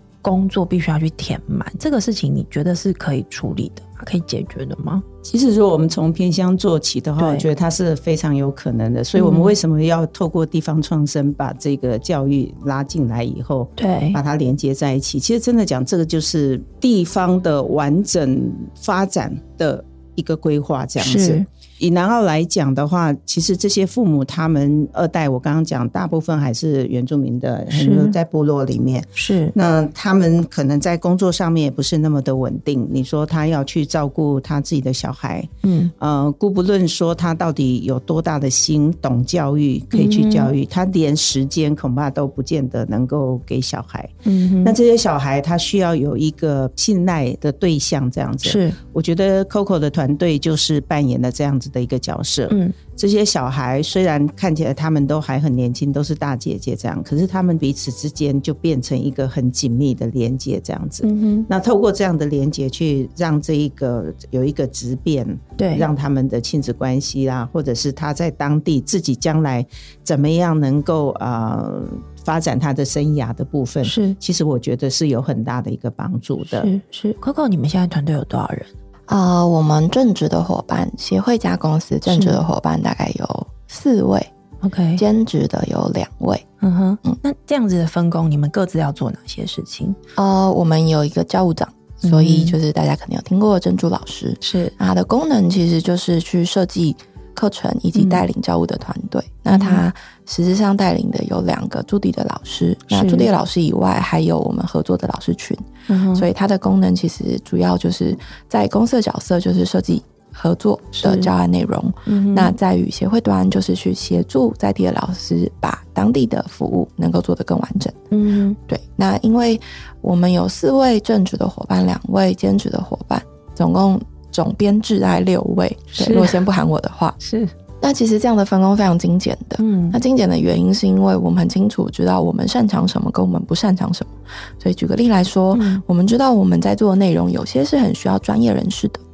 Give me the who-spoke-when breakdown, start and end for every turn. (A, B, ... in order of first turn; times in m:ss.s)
0:00.2-0:05.0 A
0:05.2-1:16.7 B
0:07.2-0:07.5 A
0:09.1-0:09.6 A
0:13.8-0:14.2 A
0:21.0-0:21.4 A
0:27.7-0:28.2 A
0:29.2-0:29.6 A
0:35.6-0:35.9 A
0:39.9-0:40.5 A
0:44.2-0:44.8 A
0:48.4-0:48.8 A
0:52.5-0:52.8 A
1:01.0-1:01.5 A
1:05.6-1:05.9 A
1:13.8-1:14.2 A
1:16.5-1:18.7 A
1:19.1-1:24.3 C
1:22.1-1:22.4 A
1:24.6-1:25.0 A
1:25.0-1:26.4 C
1:26.6-1:30.0 A
1:30.2-1:45.6 C
1:32.0-1:32.6 A
1:34.4-1:34.7 A
1:37.9-1:38.2 A
1:39.5-1:39.8 A
1:42.9-1:43.3 A
1:45.9-1:46.2 A
1:46.1-1:58.0 C
1:51.0-1:51.3 A
1:52.1-1:52.6 A
1:58.1-1:58.6 A
1:58.7-2:07.2 C
2:05.9-2:06.4 A
2:07.2-2:07.5 A
2:07.8-2:19.0 C
2:09.6-2:10.0 A
2:15.5-2:15.8 A